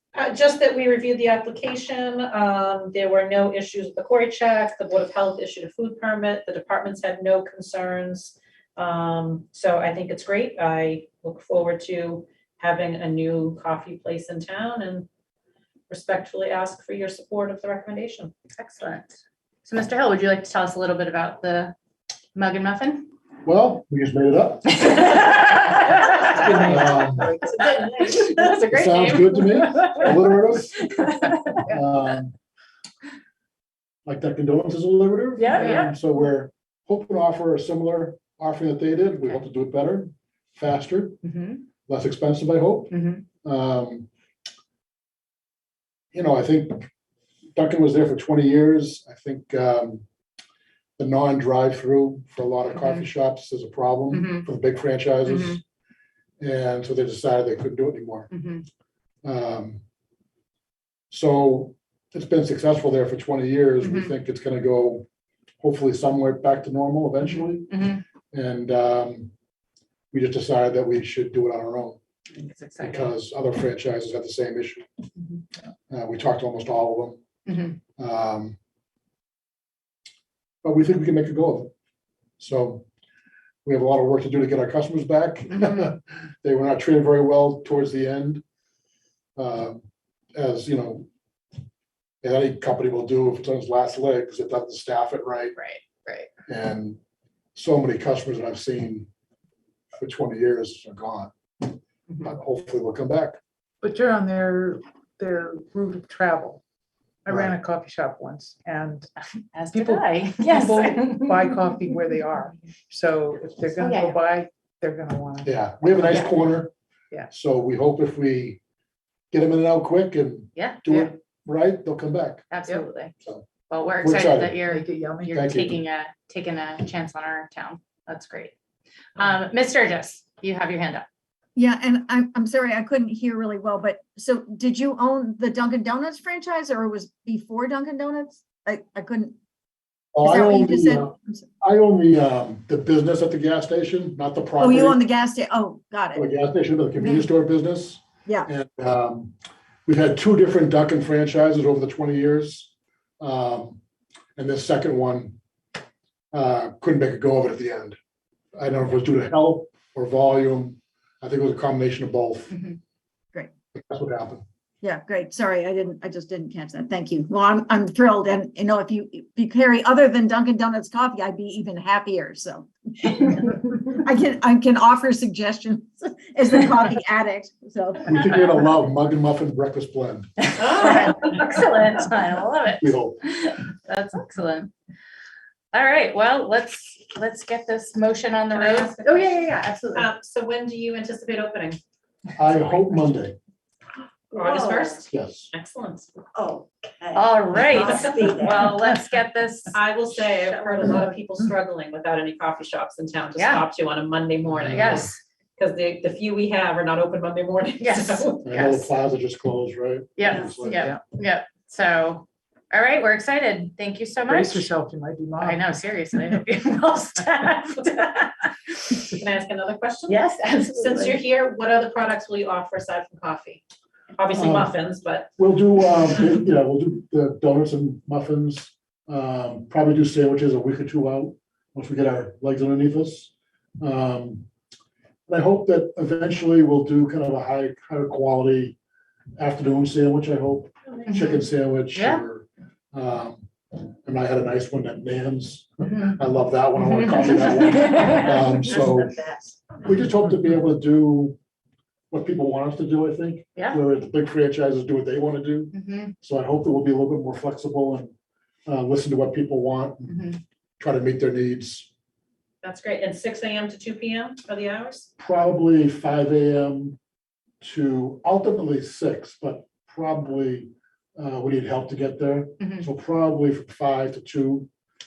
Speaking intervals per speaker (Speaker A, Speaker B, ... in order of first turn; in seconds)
Speaker A: 0.1-15.1, 15.9-18.3, 27.5-28.6, 180.6-181.6, 188.5-189.2, 189.9-191.8, 194.3-196.2, 197.7-198.5, 199.7-208.8, 219.0-223.6, 224.2-226.2, 262.6-265.1
Speaker B: 18.6-21.8, 22.4-23.1, 24.7-26.8, 27.4-30.2, 30.8-31.6, 35.4-35.9, 41.2-41.6, 42.9-43.2, 52.7-53.1, 54.1-54.5, 55.3-55.6, 58.3-58.7, 63.8-64.1, 67.2-68.0, 72.3-73.1, 77.5-77.8, 85.5-85.9, 95.6-96.3, 109.5-111.7, 113.8-114.2, 120.5-121.1, 122.5-123.1, 123.7-128.6, 129.2-131.1, 162.5-162.8, 180.5-184.7, 185.7-190.1, 197.1-199.8, 203.4-203.7, 204.7-205.2, 207.8-208.8, 210.2-214.7, 215.4-219.0, 220.1-221.2, 241.1-241.4, 241.9-242.2, 246.8-249.5, 253.6-253.8, 255.7-256.1, 260.1-260.4, 272.6-272.9
Speaker C: 23.4-24.8, 26.6-27.3, 28.7-30.9, 31.7-32.3, 34.1-41.2, 41.9-44.1, 46.1-46.9, 47.5-50.0, 51.0-55.6, 56.4-58.3, 59.2-59.8, 61.1-65.0, 65.6-67.7, 68.3-69.3, 70.1-72.0, 72.8-74.9, 75.9-77.2, 78.0-78.6, 80.6-81.7, 82.4-82.9, 83.7-88.4, 89.4-89.8, 90.3-91.1, 92.2-95.5, 96.5-97.0, 97.5-99.1, 100.0-103.4, 107.3-107.5, 115.4-116.7, 117.3-118.6, 119.3-122.5, 123.2-123.5, 124.0-124.5, 125.3-125.7, 140.1-145.0, 146.2-149.3, 149.9-153.8, 154.4-155.4, 156.3-158.0, 158.6-162.6, 163.7-164.4, 178.1-180.3, 182.8-183.2, 192.4-193.4, 195.1-195.5, 204.7-205.0, 208.4-210.8, 224.3-224.7, 225.4-234.5, 235.3-238.8, 239.4-249.2, 249.8-251.4, 252.1-258.1, 258.7-261.9, 265.2-267.0, 267.6-274.7
Speaker D: 26.1-27.5, 35.6-35.8, 103.8-106.6, 107.3-109.1, 109.7-116.2, 124.6-125.5, 210.7-211.0, 214.3-215.7
Speaker E: 131.6-139.4, 140.2-141.4, 144.6-146.3, 147.0-147.3, 164.8-178.2
Speaker F: 194.3-195.0, 196.3-198.8